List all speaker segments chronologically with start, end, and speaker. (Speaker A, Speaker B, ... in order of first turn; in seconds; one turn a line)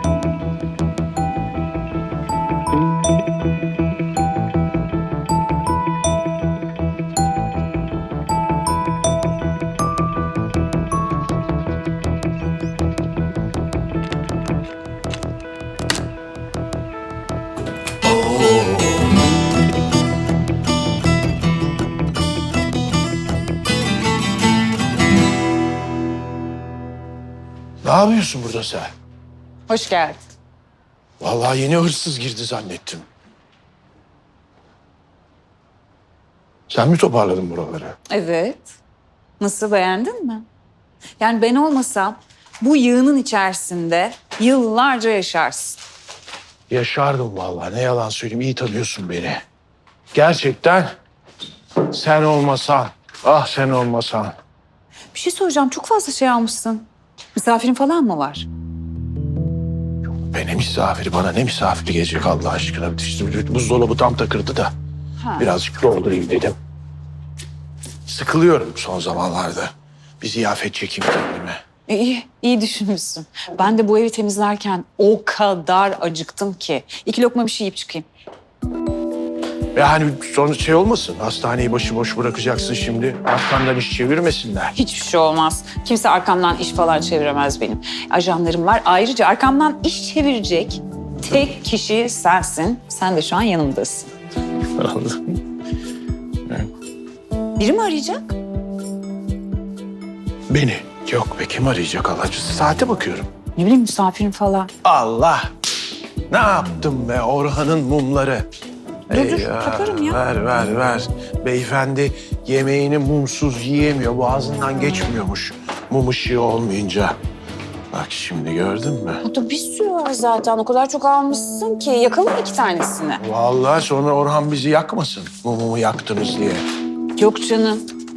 Speaker A: 18.0-19.1
Speaker A: 27.8-28.9
Speaker B: 29.7-30.3
Speaker A: 31.2-33.0
Speaker A: 36.7-38.0
Speaker B: 38.1-38.7
Speaker B: 39.4-40.5
Speaker B: 41.2-45.8
Speaker A: 46.7-49.4
Speaker A: 50.1-50.9
Speaker A: 51.9-54.3
Speaker B: 55.1-58.5
Speaker A: 60.3-64.7
Speaker B: 65.2-65.5
Speaker A: 65.4-66.5
Speaker A: 68.0-71.6
Speaker B: 71.9-78.1
Speaker A: 79.7-84.7
Speaker B: 84.8-94.1
Speaker A: 94.8-95.4
Speaker B: 97.6-98.3
Speaker A: 100.5-103.3
Speaker B: 103.5-104.7
Speaker A: 104.8-105.5
Speaker A: 106.3-108.5
Speaker B: 109.1-110.2
Speaker A: 109.1-117.2
Speaker A: 117.9-119.2
Speaker B: 119.2-123.2
Speaker A: 123.2-126.7
Speaker B: 127.2-127.8